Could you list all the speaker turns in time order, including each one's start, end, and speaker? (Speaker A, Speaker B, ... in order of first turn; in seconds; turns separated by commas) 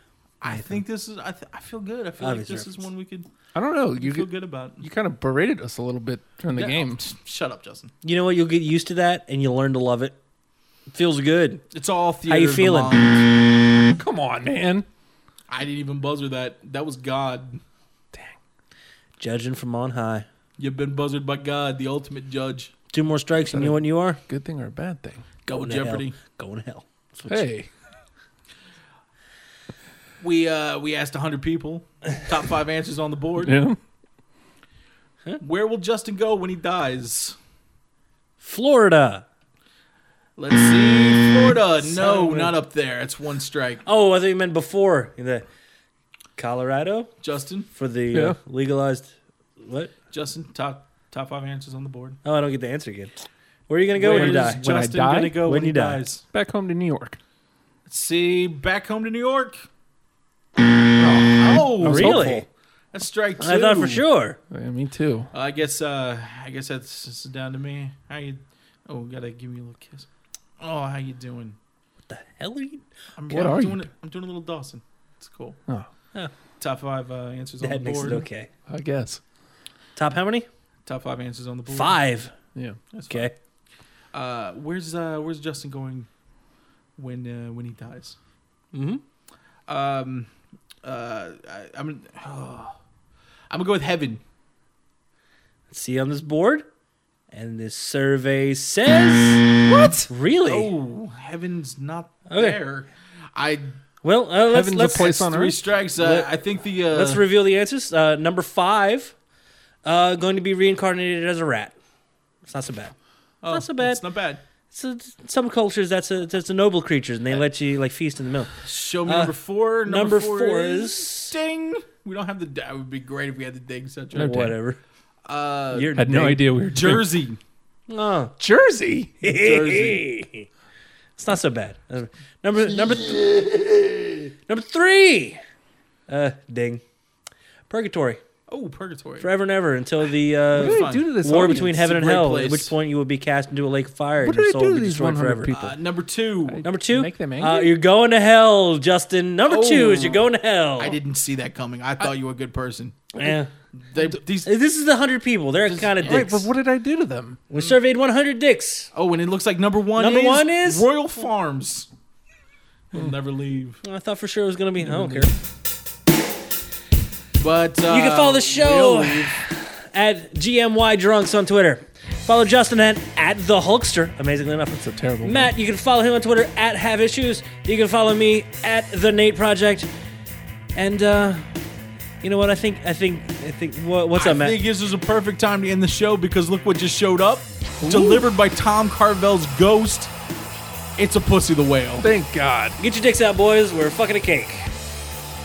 Speaker A: 0.4-3.3, Speaker B: 0.5-0.7, Speaker B: 2.2-2.7, Speaker C: 3.5-7.0, Speaker A: 4.0-4.8, Speaker A: 6.5-7.9, Speaker B: 8.0-10.2, Speaker B: 10.9-11.6, Speaker A: 11.7-13.3, Speaker B: 12.3-13.0, Speaker C: 14.0-14.9, Speaker A: 15.5-17.6, Speaker B: 19.2-20.2, Speaker A: 20.6-22.7, Speaker B: 22.9-24.2, Speaker C: 23.5-25.3, Speaker A: 25.5-26.2, Speaker B: 25.5-27.5, Speaker C: 27.3-27.7, Speaker A: 30.2-33.5, Speaker C: 33.4-33.8, Speaker A: 35.4-37.4, Speaker B: 38.4-39.2, Speaker A: 40.4-43.8, Speaker B: 41.8-42.6, Speaker B: 43.9-45.4, Speaker B: 46.4-47.1, Speaker A: 47.2-47.7, Speaker B: 47.7-49.9, Speaker C: 48.1-48.4, Speaker A: 50.1-52.2, Speaker B: 52.2-56.0, Speaker A: 54.0-56.2, Speaker C: 54.0-55.5, Speaker C: 56.3-57.2, Speaker A: 57.8-59.6, Speaker C: 61.0-62.5, Speaker A: 61.4-64.0, Speaker B: 61.8-62.5, Speaker B: 63.4-64.4, Speaker C: 64.5-65.3, Speaker A: 65.3-70.1, Speaker A: 70.6-71.6, Speaker B: 72.1-72.8, Speaker A: 73.2-75.6, Speaker C: 73.3-73.9, Speaker A: 76.6-78.2, Speaker B: 77.6-78.5, Speaker C: 78.7-79.2, Speaker B: 80.0-80.5, Speaker A: 80.8-82.0, Speaker B: 81.7-82.3, Speaker A: 82.9-83.3, Speaker B: 83.1-83.3, Speaker A: 84.1-86.1, Speaker A: 87.0-88.2, Speaker B: 88.7-89.0, Speaker A: 89.7-90.3, Speaker A: 90.8-92.7, Speaker A: 93.5-94.2, Speaker B: 95.7-96.6, Speaker B: 97.3-99.5, Speaker A: 99.6-103.7, Speaker B: 100.1-100.7, Speaker B: 102.3-102.6, Speaker B: 104.0-105.3, Speaker C: 104.4-105.6, Speaker A: 104.9-107.2, Speaker B: 106.0-106.3, Speaker B: 106.9-109.1, Speaker B: 109.8-111.7, Speaker B: 112.5-112.9, Speaker A: 113.4-114.4, Speaker B: 113.5-114.0, Speaker B: 114.7-118.5, Speaker A: 118.6-124.4, Speaker B: 119.0-119.3, Speaker B: 119.8-121.3, Speaker C: 124.1-124.6, Speaker B: 124.2-124.8, Speaker A: 125.2-126.1, Speaker B: 125.7-126.4, Speaker C: 125.9-127.1, Speaker A: 126.7-127.4, Speaker B: 127.9-128.3, Speaker C: 128.4-129.2, Speaker B: 129.2-130.5, Speaker A: 129.2-130.0, Speaker B: 131.2-135.4, Speaker B: 136.1-136.8, Speaker B: 137.7-138.2, Speaker A: 138.5-139.3, Speaker B: 139.2-145.5, Speaker C: 140.5-141.9, Speaker A: 140.5-142.7, Speaker C: 144.2-145.8, Speaker A: 145.5-146.6, Speaker C: 146.5-147.8, Speaker B: 146.6-151.0, Speaker A: 149.4-154.5, Speaker B: 153.2-153.5, Speaker B: 154.4-156.5, Speaker A: 155.6-156.3, Speaker C: 156.0-157.4, Speaker B: 157.5-158.9, Speaker A: 158.9-161.9, Speaker B: 159.9-160.9, Speaker A: 162.9-163.8, Speaker B: 163.8-165.3, Speaker C: 164.8-165.3, Speaker A: 167.4-169.4, Speaker B: 167.9-179.9, Speaker C: 174.7-175.5, Speaker B: 180.7-181.5, Speaker B: 182.2-184.6, Speaker A: 184.1-190.1, Speaker C: 187.8-188.2, Speaker A: 191.0-192.1, Speaker C: 192.0-192.8, Speaker B: 192.8-194.7